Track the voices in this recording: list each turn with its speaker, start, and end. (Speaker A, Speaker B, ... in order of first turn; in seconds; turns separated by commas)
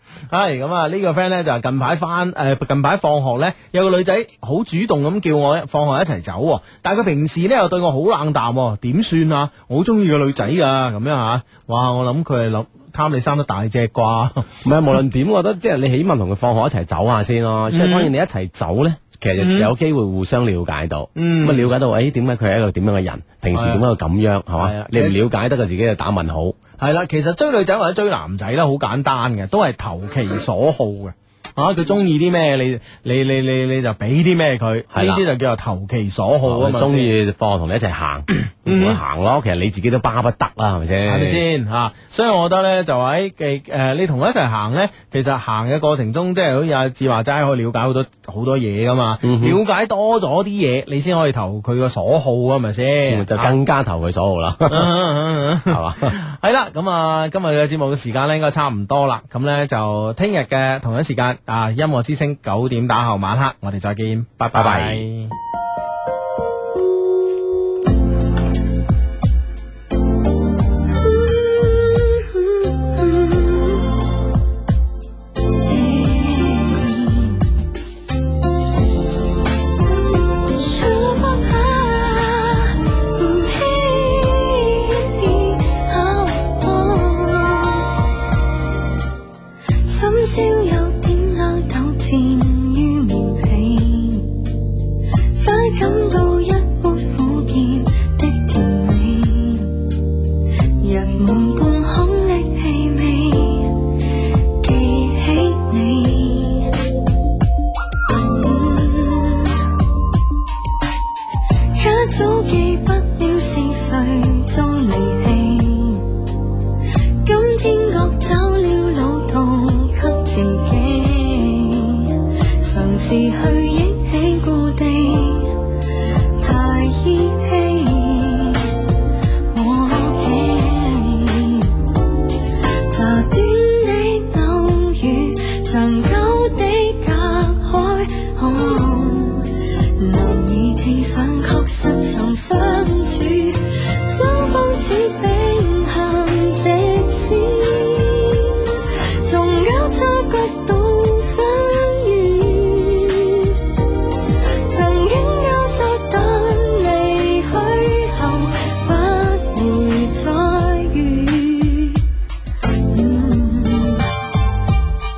Speaker A: 0.3-14.5, Speaker B: 14.6-26.6, Speaker A: 17.7-18.1, Speaker A: 19.4-19.7, Speaker A: 21.1-21.7, Speaker A: 23.5-23.8, Speaker A: 24.6-25.2, Speaker A: 26.8-37.1, Speaker B: 34.9-35.2, Speaker B: 36.4-41.4, Speaker A: 38.5-39.0, Speaker A: 41.0-53.5, Speaker B: 49.2-49.6, Speaker B: 53.1-54.9, Speaker A: 54.7-65.3, Speaker B: 55.7-56.2, Speaker B: 64.5-65.0, Speaker C: 70.8-73.9, Speaker C: 75.6-77.4, Speaker C: 80.3-87.9, Speaker C: 89.8-94.3, Speaker C: 95.3-99.8, Speaker C: 100.8-103.7, Speaker C: 104.6-106.7, Speaker C: 108.1-109.7, Speaker C: 111.7-116.1, Speaker C: 117.2-125.6, Speaker C: 126.4-128.7, Speaker C: 129.5-131.7, Speaker C: 132.9-153.6, Speaker C: 154.7-162.0, Speaker C: 162.8-164.1